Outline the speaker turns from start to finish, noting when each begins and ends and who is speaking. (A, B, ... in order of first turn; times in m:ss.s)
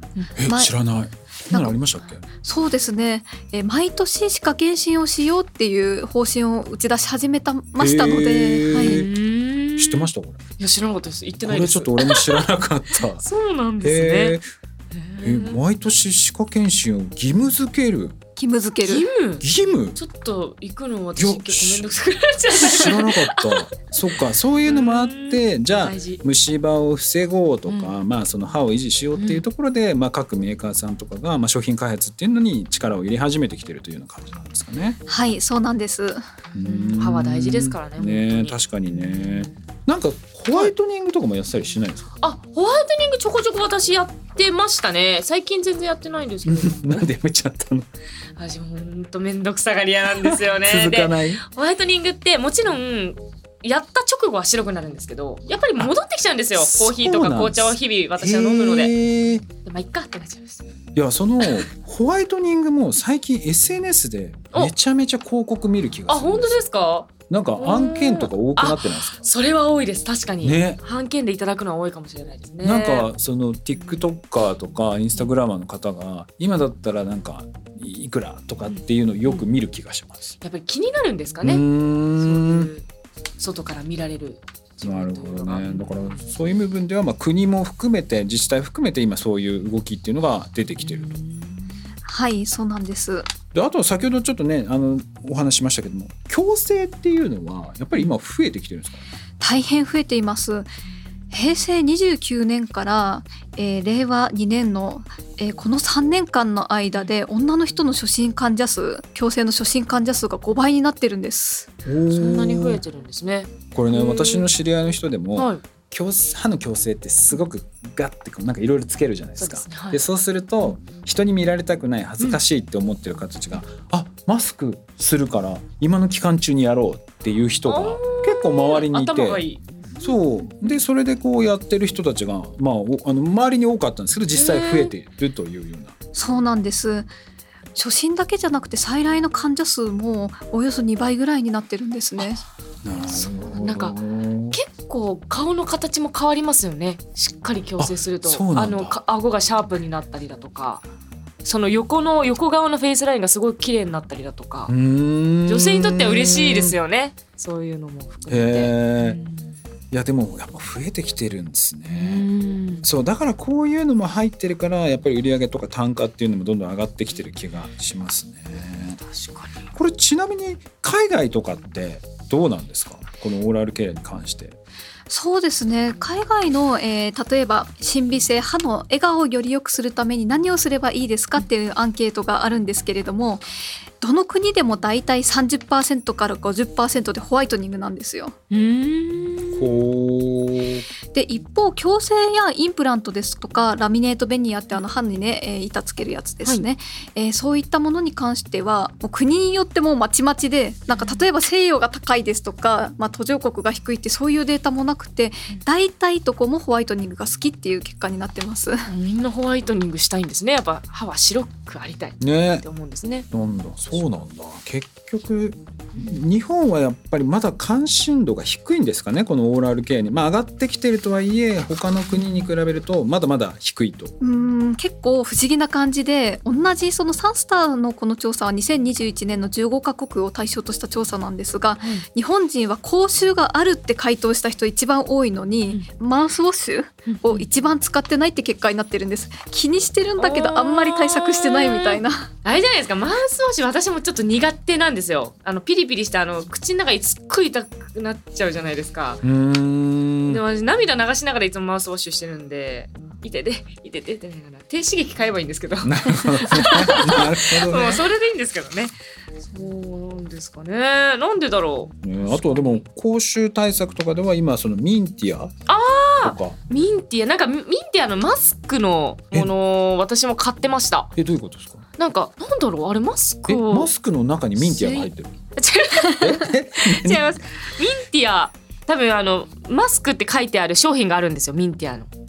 0:00.4-0:00.7 A
0:00.4-0:02.2 B
0:01.5-0:01.8 A
0:02.4-0:09.0 A
0:07.8-0:09.1 B
0:08.7-0:12.5 C
0:09.8-0:10.4 B
0:11.5-0:13.2 B
0:13.2-0:14.4 C
0:13.8-0:14.5 B
0:14.9-0:15.6 C
0:15.2-0:18.2 B
0:18.4-0:19.1 A
0:18.8-0:26.2 C
0:19.4-0:20.0 B
0:21.2-0:21.9 B
0:22.5-0:35.0 B
0:27.7-0:28.0 C
0:29.2-0:29.4 C
0:35.1-0:36.2 A
0:36.5-0:42.1 B
0:36.6-0:39.6 C
0:42.2-0:47.1 C
0:46.4-0:47.9 B
0:48.4-0:58.9 C
0:50.2-0:51.4 B
0:56.6-0:59.5 B
0:59.6-1:00.7 C
1:01.0-1:06.7 B
1:01.4-1:01.7 C
1:06.1-1:13.1 C
1:07.3-1:09.2 B
1:10.4-1:10.8 B
1:12.6-1:20.4 B
1:18.7-1:19.4 C
1:20.4-1:22.9 C
1:21.4-1:22.7 B
1:23.4-1:26.3 C
1:24.8-1:31.1 B
1:30.8-1:31.7 C
1:32.1-1:33.3 A
1:33.5-1:39.0 B
1:39.4-1:40.7 A
1:41.3-1:51.7 A
1:51.8-1:52.8 B
1:52.1-1:54.5 C
1:53.7-2:09.5 B
1:55.4-1:55.6 C
1:59.4-2:00.0 C
2:07.7-2:10.8 C
2:10.0-2:15.9 B
2:14.4-2:14.9 C
2:16.1-2:17.1 A
2:17.8-2:22.4 A
2:22.8-2:24.6 B
2:23.0-2:24.0 C
2:24.5-2:30.8 C
2:27.8-2:29.0 B
2:31.4-2:34.7 C
2:34.7-2:36.8 B
2:35.5-2:39.5 C
2:38.3-2:39.2 B
2:39.9-2:42.3 B
2:41.9-2:42.9 C
2:42.8-2:49.0 B
2:49.0-2:49.6 C
2:49.7-2:54.6 B
2:55.1-3:03.4 A
3:04.0-3:08.4 A
3:08.5-3:09.8 C
3:09.6-3:10.9 B
3:11.1-3:28.9 A
3:20.9-3:21.3 C
3:28.9-3:33.3 C
3:32.2-3:32.6 B
3:33.3-3:44.1 B
3:42.1-3:42.5 C
3:44.2-4:02.3 A
3:57.1-3:57.5 C
4:00.2-4:09.2 C
4:09.2-4:10.4 B
4:10.3-4:22.8 C
4:15.8-4:18.1 B
4:22.0-4:25.5 B
4:25.7-4:31.1 C
4:26.2-4:26.6 B
4:31.2-4:31.8 B
4:32.0-4:33.9 C
4:33.5-4:35.4 B
4:34.6-4:42.1 C
4:36.0-4:37.3 B